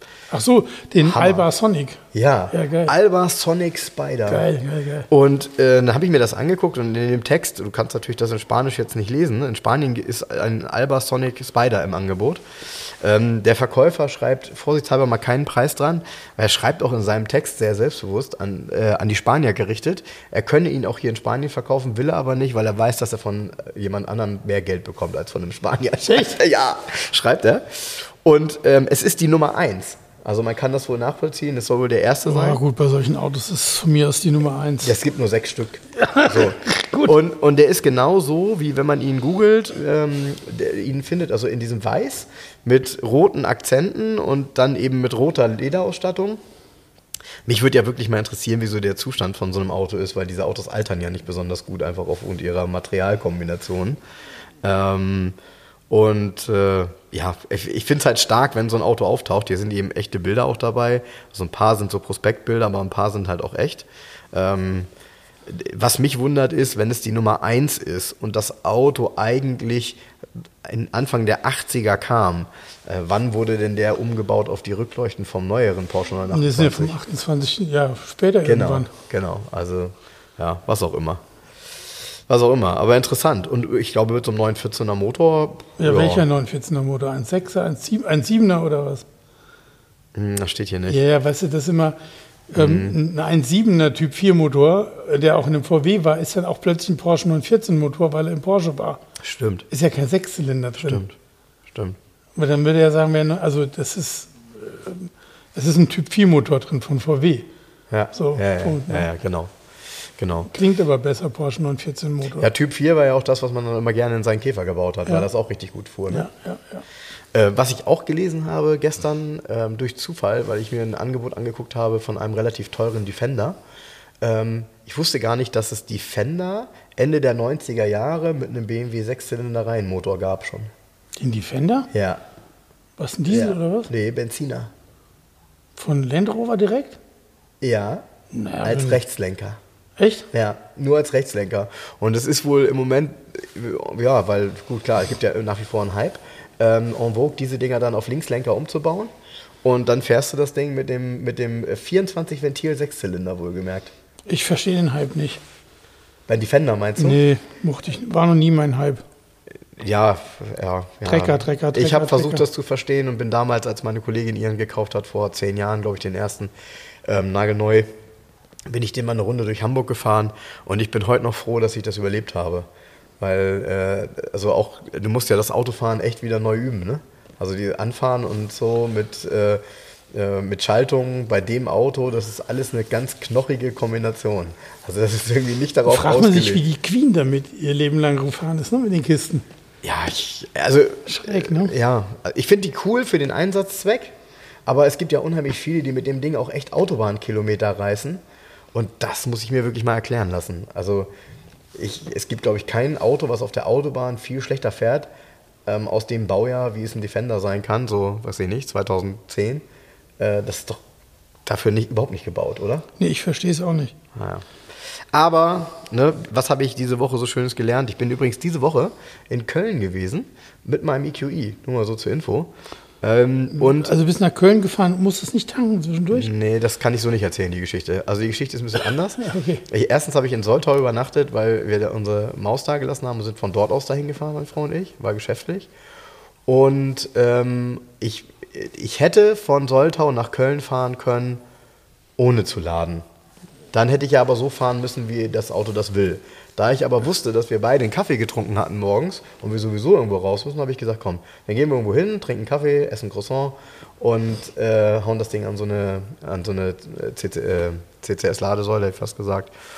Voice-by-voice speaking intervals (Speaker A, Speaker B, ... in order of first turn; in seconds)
Speaker A: 0.3-2.9, 4.3-5.1, 26.1-26.3, 32.2-35.0, 36.0-37.1, 76.3-78.9, 85.8-89.0, 90.9-92.0, 92.5-99.0, 99.7-101.0, 102.3-107.5, 108.1-109.1, 110.5-112.5, 116.1-116.8, 131.2-131.9, 133.0-133.9, 135.8-137.0, 138.3-139.0, 140.0-140.3, 154.2-155.4, 157.0-159.0, 161.0-162.4, 185.8-189.4, 191.1-191.7, 213.0-213.9, 223.6-226.3, 229.2-229.6
Speaker B: 1.0-1.5, 2.1-4.5, 5.1-32.6, 34.8-46.4, 47.5-54.0, 54.6-55.4, 55.9-64.9, 65.5-70.0, 70.6-76.9, 78.4-81.2, 82.3-86.2, 90.1-91.0, 92.5-93.0, 99.2-99.7, 100.8-101.1, 107.9-109.5, 110.2-110.5, 112.4-116.3, 117.3-123.6, 124.2-130.7, 131.9-132.2, 133.3-134.7, 137.6-138.0, 138.6-139.6, 140.3-149.1, 149.6-153.9, 156.3-157.2, 159.8-166.5, 167.0-167.9, 168.7-172.7, 173.2-179.6, 180.1-186.6, 189.8-194.1, 194.7-198.2, 198.7-201.1, 201.7-205.1, 205.7-209.6, 210.2-210.8, 211.4-212.8, 214.1-214.5, 215.1-222.5, 223.0-223.9, 226.1-235.7, 236.5-241.4, 242.2-243.0, 243.7-259.5